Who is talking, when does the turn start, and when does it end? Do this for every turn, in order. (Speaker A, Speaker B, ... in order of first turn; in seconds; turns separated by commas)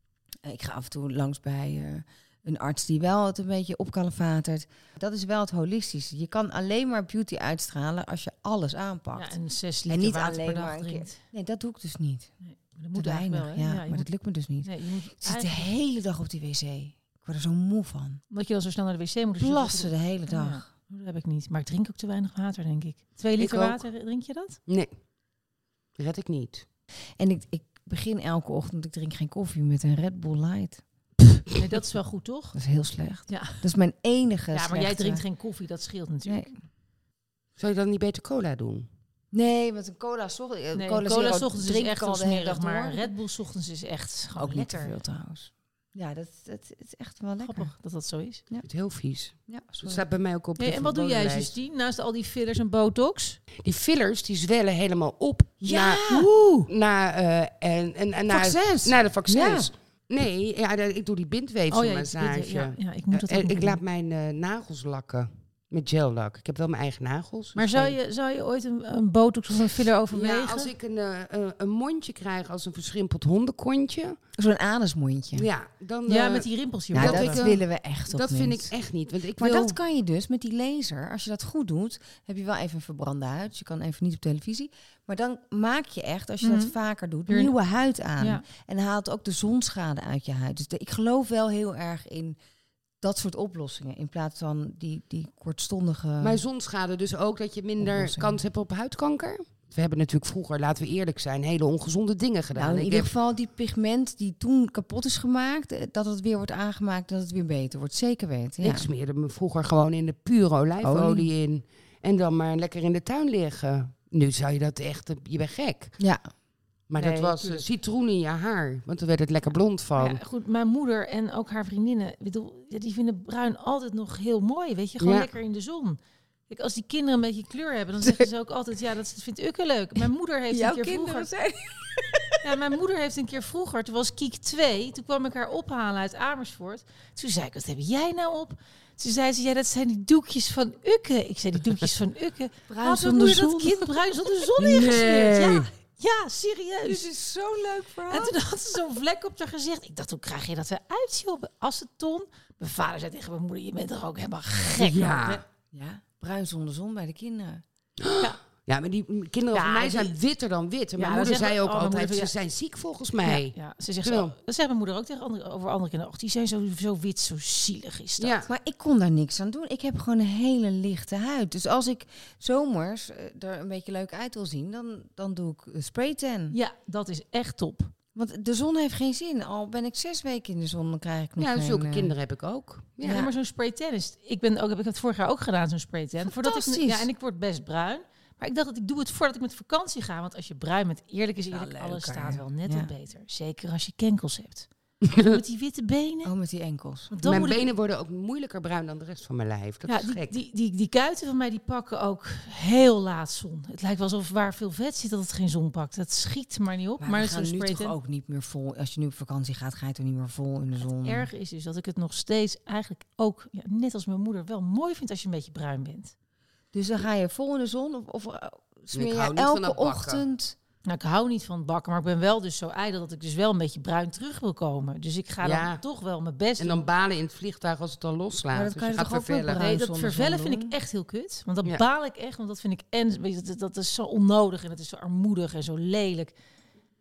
Speaker A: 0.4-9.3, Speaker B: 9.2-11.2, Speaker A: 9.9-12.3, Speaker B: 12.4-14.1, Speaker A: 12.9-18.2, Speaker B: 14.6-15.7, Speaker B: 18.3-24.6, Speaker A: 19.4-20.7, Speaker C: 23.4-23.8, Speaker C: 24.7-24.9, Speaker C: 26.0-26.6, Speaker A: 27.2-30.8, Speaker B: 31.6-32.6, Speaker A: 32.5-35.2, Speaker B: 33.3-33.6, Speaker B: 34.5-36.5, Speaker A: 36.3-36.5, Speaker C: 37.6-38.9, Speaker A: 39.3-43.1, Speaker B: 40.7-44.9, Speaker A: 44.4-47.7, Speaker B: 47.4-48.4, Speaker C: 48.6-51.5, Speaker A: 49.5-50.0, Speaker B: 50.6-53.4, Speaker C: 53.6-68.0, Speaker A: 55.6-56.7, Speaker A: 58.3-59.7, Speaker B: 61.7-63.8, Speaker B: 67.6-70.7, Speaker C: 70.1-74.2, Speaker A: 74.4-75.5, Speaker C: 75.3-79.8, Speaker B: 76.1-77.5, Speaker A: 76.9-78.7, Speaker A: 79.4-92.4, Speaker B: 86.4-86.7, Speaker B: 87.3-87.5, Speaker B: 88.2-88.5, Speaker A: 93.0-96.4, Speaker C: 96.2-103.1, Speaker A: 97.8-98.4, Speaker A: 102.5-108.9, Speaker C: 108.6-116.0, Speaker A: 110.8-111.3, Speaker A: 116.0-116.3, Speaker C: 116.9-120.2, Speaker B: 117.0-117.7, Speaker B: 120.0-131.3, Speaker C: 125.0-125.3, Speaker A: 128.0-128.3, Speaker A: 130.5-132.5, Speaker B: 132.4-147.1, Speaker A: 142.7-143.9, Speaker C: 144.6-145.7, Speaker A: 146.9-148.4, Speaker B: 148.1-155.4, Speaker C: 154.7-155.4, Speaker A: 155.7-157.6, Speaker C: 158.0-164.3, Speaker B: 159.5-160.2, Speaker B: 161.0-162.3, Speaker B: 163.2-168.4, Speaker C: 168.2-168.5, Speaker A: 168.5-176.6, Speaker B: 176.5-177.9, Speaker A: 178.2-182.1, Speaker C: 181.4-183.2, Speaker A: 183.0-183.3, Speaker B: 183.0-196.3, Speaker A: 186.2-187.1, Speaker A: 191.5-192.9, Speaker A: 196.2-197.1, Speaker B: 197.1-197.7, Speaker C: 197.2-200.4, Speaker B: 199.9-207.9, Speaker A: 207.0-211.3, Speaker B: 210.8-216.1, Speaker A: 216.7-220.6, Speaker C: 218.9-220.2, Speaker B: 220.9-226.9, Speaker C: 225.4-225.8, Speaker C: 226.6-229.6, Speaker A: 228.5-230.8, Speaker B: 229.6-236.3